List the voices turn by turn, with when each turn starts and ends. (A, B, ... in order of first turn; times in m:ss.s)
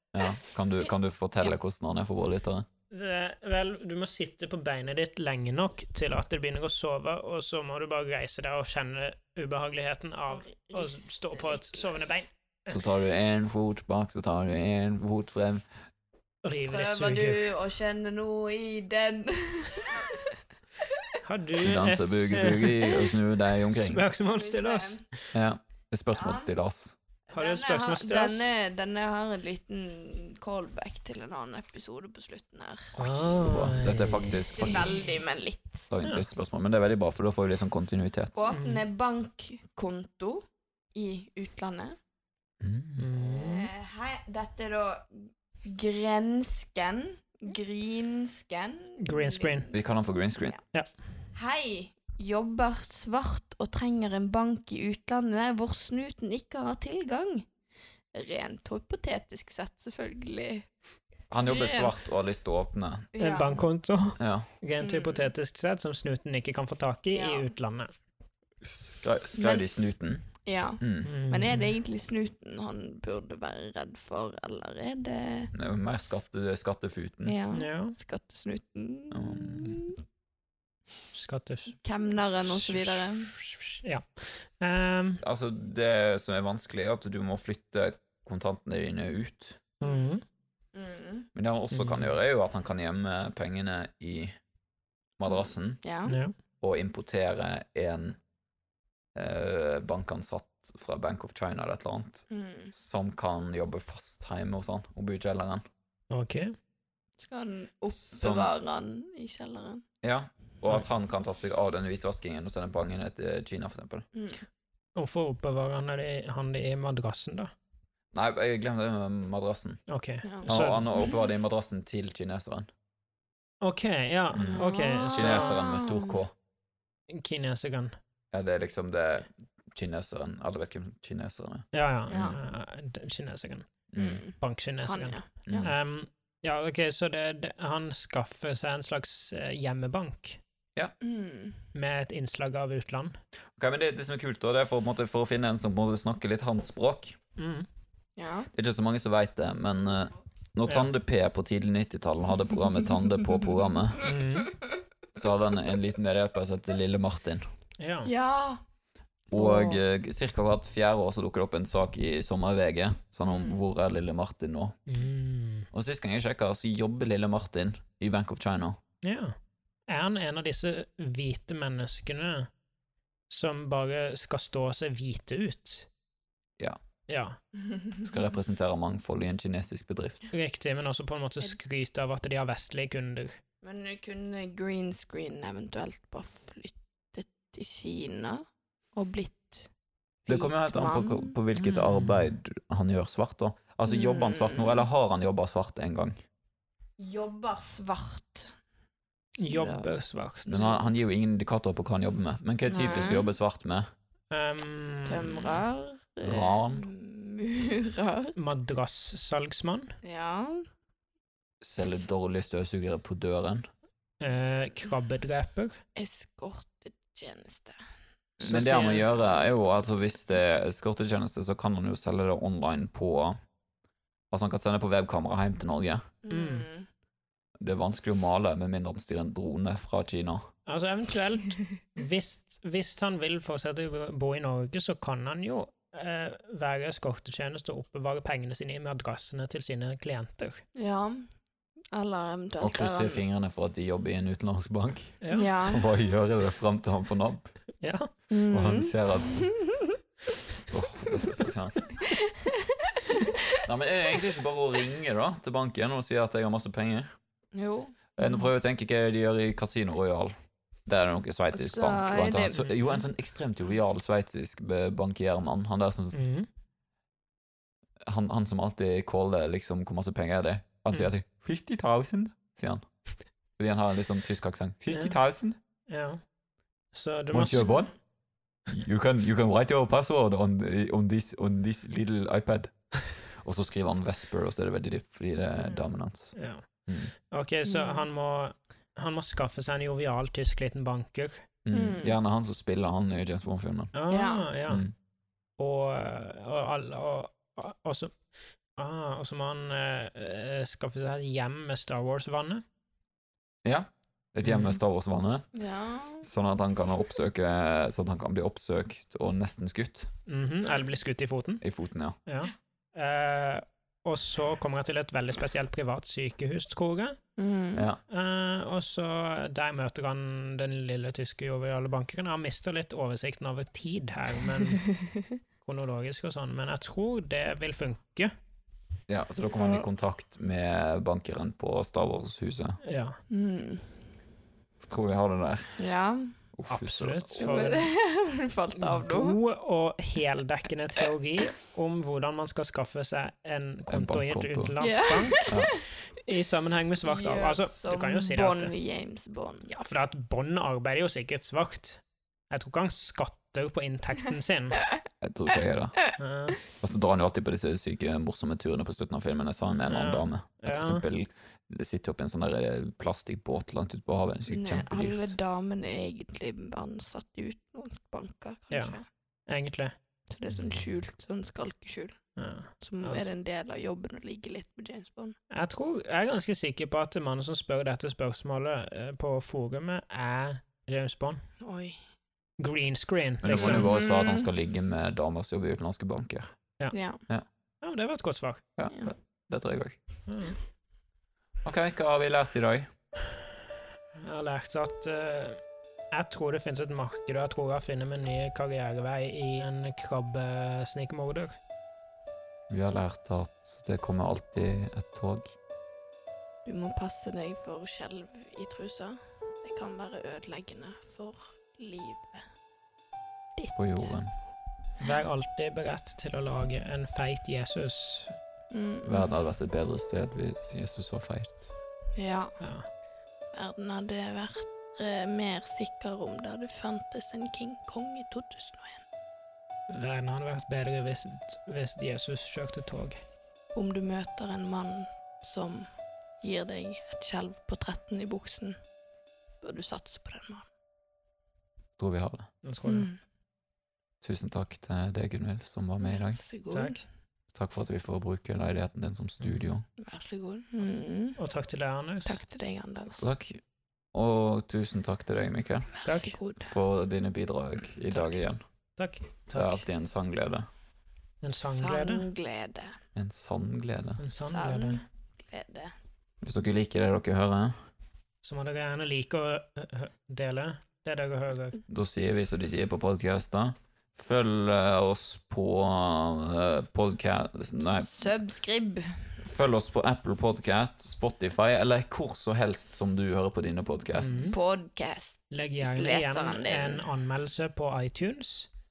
0:00.1-0:02.7 A
0:02.9-0:12.8 B
0:10.3-0:12.0 C
0:12.7-0:15.7 A
0:16.4-0:17.5 B
0:16.7-0:20.4 C
0:21.2-0:23.0 B
0:21.6-0:24.0 A
0:23.7-0:25.3 B
0:24.3-0:25.1 C
0:25.3-0:27.0 A
0:26.1-0:26.5 C
0:27.3-0:35.9 C
0:27.3-0:28.4 B
0:33.0-0:34.4 B
0:33.3-0:35.1 A
0:35.9-0:38.4 A
0:38.4-0:42.0 C
0:38.5-0:38.8 B
0:42.6-0:43.0 A
0:43.0-0:43.7 B
0:43.2-0:49.8 C
0:49.0-0:49.7 B
0:49.7-0:50.6 A
0:51.3-0:57.5 C
0:58.1-1:00.7 C
1:01.3-1:03.1 A
1:01.4-1:02.0 C
1:03.1-1:03.7 C
1:03.2-1:07.9 B
1:04.2-1:04.5 A
1:04.8-1:05.3 C
1:07.1-1:07.5 C
1:08.6-1:10.2 A
1:09.4-1:09.7 C
1:10.4-1:15.5 C
1:10.8-1:11.1 A
1:11.0-1:11.7 B
1:15.5-1:17.4 A
1:17.3-1:20.0 C
1:17.5-1:18.0 B
1:19.1-1:19.8 A
1:21.1-1:25.2 B
1:21.8-1:23.3 C
1:25.2-1:29.6 A
1:29.8-1:30.2 B
1:30.7-1:31.3 C
1:31.4-1:34.3 A
1:31.7-1:32.1 B
1:35.2-1:35.8 A
1:35.3-1:36.2 C
1:36.1-1:36.4 B
1:36.6-1:38.2 A
1:39.2-1:45.6 A
1:42.3-1:42.7 C
1:46.1-1:46.6 B
1:47.2-1:49.8 C
1:47.9-1:48.5 A
1:50.0-1:54.1 A
1:54.1-1:54.4 C
1:55.0-1:57.5 B
1:58.1-1:59.8 A
1:59.9-2:00.9 B
2:00.2-2:01.1 C
2:00.4-2:02.7 A
2:03.6-2:05.6 B
2:04.3-2:06.3 A
2:04.4-2:06.2 C
2:07.1-2:08.0 B
2:08.3-2:12.4 A
2:11.7-2:13.7 B
2:12.1-2:12.4 C
2:13.9-2:14.2 A
2:14.0-2:15.7 C
2:14.4-2:20.4 B
2:15.5-2:15.7 A
2:21.0-2:21.6 C
2:21.7-2:23.2 B
2:23.6-2:27.2 A
2:27.4-2:27.7 B
2:28.2-2:28.5 C
2:28.5-2:34.1 A
2:34.0-2:34.6 B
2:35.1-2:37.4 A
2:37.8-2:38.1 B
2:38.0-2:38.6 C
2:39.3-2:44.8 A
2:39.3-2:39.8 C
2:43.3-2:43.6 C
2:44.9-2:45.7 B
2:45.7-2:48.8 A
2:49.0-2:49.4 B
2:49.9-2:52.5 B
2:53.3-2:55.9 B
2:57.1-2:57.4 B
2:58.0-3:00.3 A
3:00.3-3:03.4 B
3:03.6-3:09.7 C
3:10.3-3:11.4 C
3:10.3-3:16.2 A
3:11.6-3:12.3 B
3:13.9-3:14.8 C
3:17.0-3:18.6 C
3:19.4-3:20.6 B
3:19.4-3:19.9 C
3:20.4-3:20.8 C
3:20.5-3:23.9 A
3:22.7-3:23.3 C
3:24.3-3:25.6 B
3:25.1-3:28.4 C
3:26.2-3:26.9 A
3:28.4-3:29.9 B
3:30.0-3:30.7 C
3:31.6-3:33.7 A
3:34.2-3:35.8 B
3:36.0-3:37.8 C
3:38.4-3:39.0 B
3:38.4-3:43.4 A
3:38.4-3:38.7 C
3:44.3-3:46.0 A
3:46.2-3:46.9 C
3:46.3-3:46.7 B
3:47.6-3:50.4 A
3:50.7-4:00.6 B
4:00.8-4:01.3 C
4:01.9-4:03.2 C
4:02.6-4:07.6 A
4:05.2-4:05.5 B
4:05.3-4:05.8 C
4:07.8-4:08.1 B
4:08.3-4:10.0 C
4:08.5-4:09.5 A
4:10.7-4:11.9 A
4:12.2-4:13.4 C
4:13.6-4:17.1 A
4:17.5-4:18.0 C
4:18.2-4:20.3 A
4:20.8-4:26.2 A
4:21.5-4:22.9 C
4:26.1-4:26.5 B
4:28.0-4:32.9 A
4:33.6-4:35.6 A
4:34.9-4:35.2 B
4:35.9-4:36.2 B
4:36.9-4:37.7 B
4:37.3-4:37.9 A
4:38.7-4:47.1 A
4:45.6-4:45.9 C
4:46.4-4:46.7 B
4:47.3-4:51.4 B
4:47.7-4:48.1 C
4:51.6-4:53.9 A
4:51.7-4:52.2 C
4:53.9-4:54.8 B
4:54.1-4:54.5 C
4:54.7-4:54.9 A
4:55.6-4:58.2 B
4:58.8-5:02.6 B
5:03.6-5:05.5 A
5:04.4-5:04.8 B
5:05.5-5:06.3 C
5:06.2-5:10.1 A
5:10.3-5:11.6 B
5:11.6-5:12.2 A
5:12.2-5:17.2 B
5:17.4-5:17.9 C
5:17.8-5:18.0 A
5:18.1-5:24.9 B
5:25.6-5:28.3 B
5:29.1-5:32.8 A
5:29.6-5:29.8 C
5:32.8-5:33.2 B
5:33.3-5:34.0 C
5:34.8-5:35.8 A
5:35.8-5:36.4 C
5:36.5-5:37.3 A
5:36.7-5:37.9 B
5:37.4-5:39.4 C
5:38.7-5:48.7 B
5:43.9-5:44.8 A
5:44.8-5:45.8 C
5:45.5-5:45.7 A
5:47.0-5:49.7 C
5:49.7-5:54.8 B
5:55.2-5:56.1 A
5:56.2-5:56.6 B
5:56.8-6:05.3 A
5:59.9-6:01.0 B
6:04.5-6:09.1 C
6:08.7-6:10.0 B
6:10.3-6:15.4 C
6:12.4-6:13.3 B
6:15.5-6:21.4 B
6:21.6-6:22.0 C
6:22.6-6:23.9 B
6:23.4-6:26.5 A
6:23.5-6:24.5 C
6:26.9-6:27.2 C
6:27.8-6:28.6 B
6:28.8-6:30.0 A
6:30.3-6:30.6 B
6:31.6-6:32.9 A
6:34.2-6:35.6 B
6:36.1-6:41.6 B
6:42.7-6:45.6 A
6:46.6-6:52.5 C
6:53.6-6:54.1 C
6:53.8-6:54.3 A
6:55.0-6:58.4 B
6:58.7-6:59.3 C
6:59.0-7:01.7 A
7:02.2-7:02.6 C
7:02.6-7:02.9 B
7:03.5-7:09.0 C
7:09.9-7:13.2 B
7:13.8-7:18.8 C
7:19.6-7:20.7 C
7:22.0-7:22.5 A
7:22.6-7:23.1 B
7:22.8-7:23.2 C
7:24.2-7:26.4 A
7:26.0-7:27.0 C
7:26.7-7:27.0 B
7:27.5-7:29.8 A
7:29.4-7:29.7 B
7:30.0-7:31.4 C
7:31.4-7:32.4 B
7:32.3-7:33.3 C
7:33.2-7:33.6 A
7:34.1-7:35.9 A
7:36.0-7:36.8 C
7:36.0-7:36.4 B
7:36.6-7:38.6 A
7:38.1-7:38.4 B
7:39.0-7:39.8 B
7:39.5-7:40.7 A
7:41.4-7:42.3 B
7:41.6-7:43.0 C
7:43.2-7:44.2 A
7:44.2-7:45.0 B
7:44.4-7:45.9 C
7:46.4-7:47.8 A
7:48.4-7:51.8 B
7:51.9-7:58.1 A
7:58.0-7:59.3 C
7:59.4-8:04.6 A
8:04.2-8:04.6 B
8:04.5-8:07.1 C
8:05.5-8:08.7 B